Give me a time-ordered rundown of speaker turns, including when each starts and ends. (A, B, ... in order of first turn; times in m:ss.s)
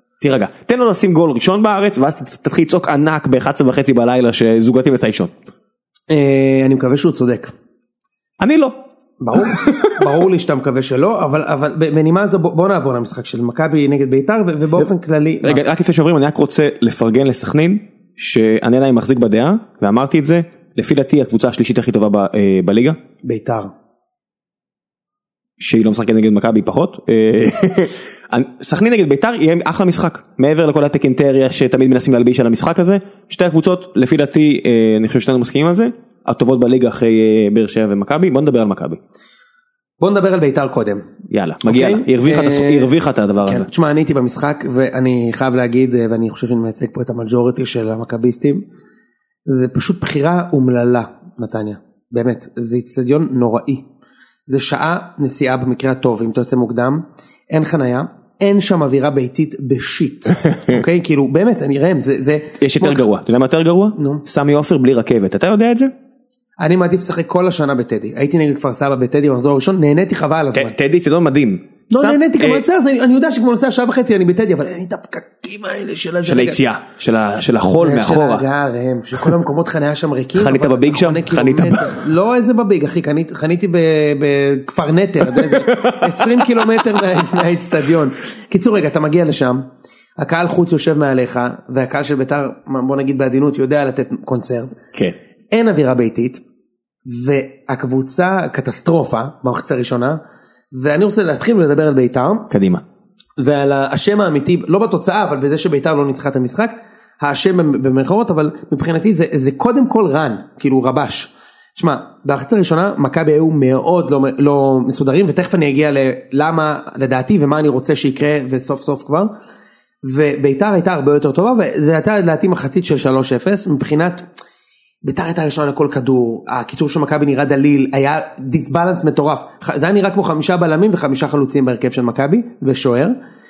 0:00.2-0:05.3 A
0:06.1-0:07.5 B
0:08.4-0:08.8 A
0:09.2-0:15.6 B
0:09.3-0:10.1 A
0:15.4-0:23.0 A
0:23.2-0:23.7 B
0:25.6-0:39.0 A
0:40.0-0:41.0 B
0:41.3-0:43.7 A
0:41.6-0:42.9 B
0:43.4-0:48.6 B
0:49.5-0:53.8 B
0:54.5-1:03.0 B
1:02.6-1:05.9 A
1:04.0-1:04.2 B
1:06.6-1:10.7 B
1:10.5-1:12.6 A
1:11.9-1:16.6 B
1:16.2-1:18.4 A
1:17.8-1:29.6 B
1:20.3-1:22.0 A
1:25.2-1:27.4 A
1:30.2-1:34.7 B
1:35.5-1:36.4 B
1:37.1-1:40.2 B
1:40.7-1:42.5 B
1:42.5-1:42.8 A
1:43.4-1:59.3 B
2:00.0-2:04.2 B
2:05.0-2:13.2 B